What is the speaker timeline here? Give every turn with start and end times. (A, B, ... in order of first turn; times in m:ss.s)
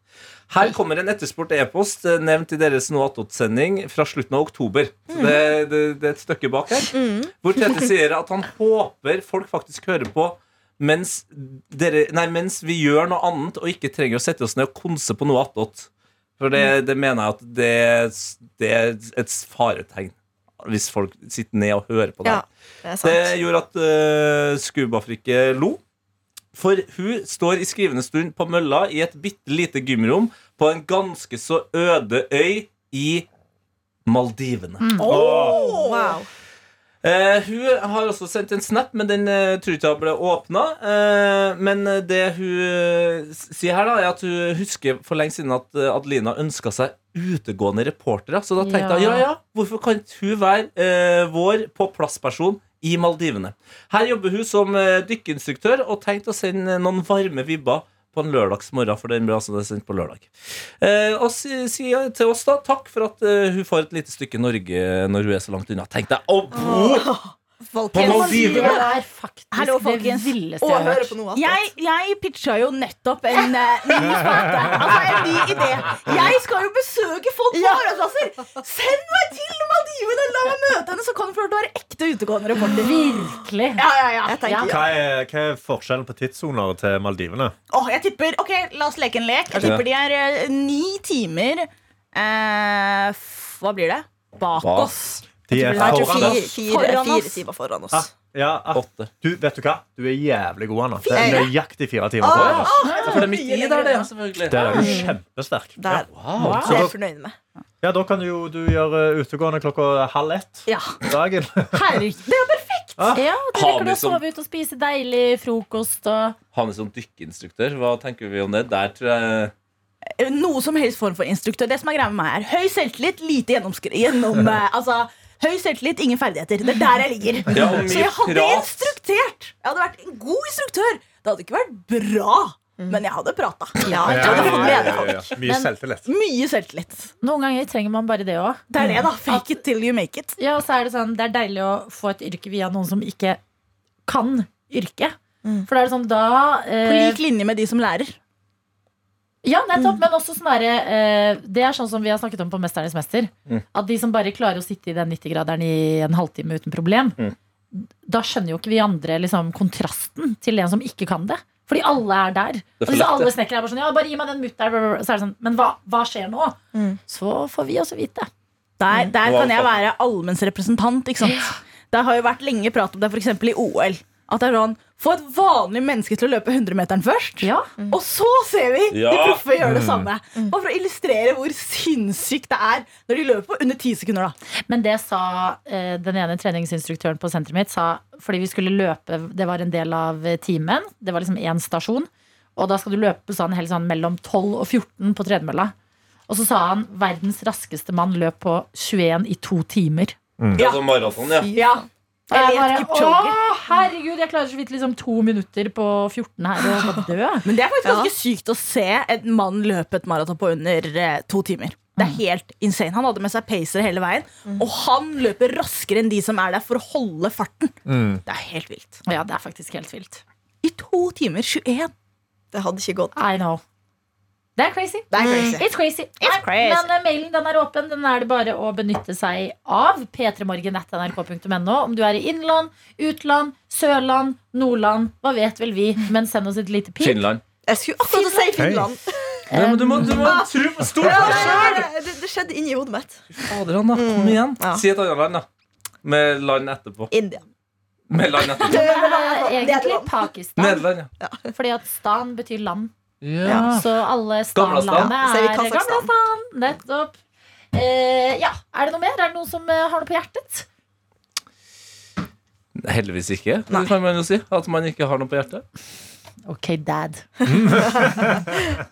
0:00.5-0:22.4 A
0:05.1-0:05.4 B
0:06.9-0:07.3 B
0:22.2-0:23.3 B
0:23.0-0:25.8 A
0:26.5-0:33.2 A
0:34.0-0:34.9 A
0:34.8-0:35.1 C
0:35.0-0:36.2 D
0:35.1-0:36.3 B
0:35.1-0:35.6 E
0:37.0-1:00.3 A
0:48.6-0:49.2 C
1:00.8-1:07.1 A
1:06.5-1:08.9 B
1:07.9-1:08.8 A
1:07.9-1:11.1 C
1:08.0-1:08.8 D
1:09.5-1:23.0 D
1:10.7-1:11.6 B
1:17.5-1:17.9 B
1:22.7-1:23.8 C
1:23.8-1:24.6 D
1:24.2-1:24.9 B
1:24.4-1:24.8 C
1:24.6-1:27.5 E
1:27.7-1:37.4 D
1:29.5-1:29.8 B
1:29.6-1:29.8 A
1:34.6-1:34.9 A
1:35.5-1:36.5 E
1:35.7-1:38.1 B
1:35.8-1:36.4 A
1:37.9-1:42.7 E
1:38.7-1:39.1 A
1:41.0-1:41.5 B
1:41.1-1:41.5 D
1:42.2-1:44.1 B
1:42.3-1:44.8 A
1:42.8-1:43.4 D
1:42.8-1:43.2 C
1:44.5-1:47.0 E
1:44.7-1:45.2 B
1:45.8-1:47.4 B
1:46.1-1:46.6 A
1:46.4-1:46.8 C
1:47.8-1:52.0 E
1:50.7-1:51.0 D
1:51.7-1:53.1 D
1:53.0-1:53.3 E
1:53.1-1:56.4 C
1:53.5-1:54.2 A
1:56.5-1:59.5 A
2:00.2-2:15.2 D
2:07.5-2:08.9 A
2:13.8-2:15.3 B
2:13.9-2:14.5 C
2:14.0-2:16.1 E
2:15.4-2:15.7 C
2:16.0-2:17.1 D
2:17.2-2:18.6 C
2:18.7-2:20.4 D
2:20.4-2:23.4 C
2:24.0-2:27.2 C
2:26.8-2:28.1 D
2:29.4-2:37.2 C
2:37.7-2:48.3 C
2:42.8-2:43.3 A
2:46.7-2:47.0 B
2:48.8-3:04.3 D
2:49.2-2:49.7 A
2:51.2-2:51.5 C
2:57.4-2:57.7 C
2:58.9-2:59.4 A
2:59.6-3:00.1 E
3:04.7-3:15.7 C
3:16.3-3:20.2 C
3:20.4-3:20.6 E
3:20.6-3:21.5 A
3:20.6-3:23.4 D
3:21.4-3:21.7 B
3:22.3-3:27.5 C
3:27.4-3:39.0 D
3:27.8-3:28.1 B
3:37.8-3:38.2 E
3:39.0-3:40.2 C
3:40.6-3:41.9 D
3:42.5-3:43.2 B
3:43.1-3:43.6 C
3:44.6-3:57.3 C
3:45.1-3:45.6 D
3:45.2-3:45.6 B
3:46.2-3:46.9 D
3:57.0-3:57.4 A
3:57.6-3:59.5 B
3:58.0-3:58.8 C
3:58.6-3:58.9 E
3:59.5-4:00.4 C
3:59.5-4:01.9 A
4:00.0-4:04.8 B
4:01.3-4:01.7 C
4:03.4-4:05.4 A
4:06.0-4:07.1 A
4:07.1-4:07.4 B
4:08.1-4:08.8 A
4:08.6-4:10.3 B
4:08.6-4:10.8 C
4:10.6-4:11.1 A
4:11.2-4:11.5 B
4:11.5-4:12.9 C
4:13.2-4:13.8 A
4:13.4-4:13.8 B
4:13.5-4:17.1 C
4:14.5-4:15.2 A
4:15.1-4:16.1 B
4:17.7-4:20.6 C
4:22.8-4:25.6 A
4:26.5-4:27.2 C
4:27.4-4:28.8 E
4:27.8-4:28.2 B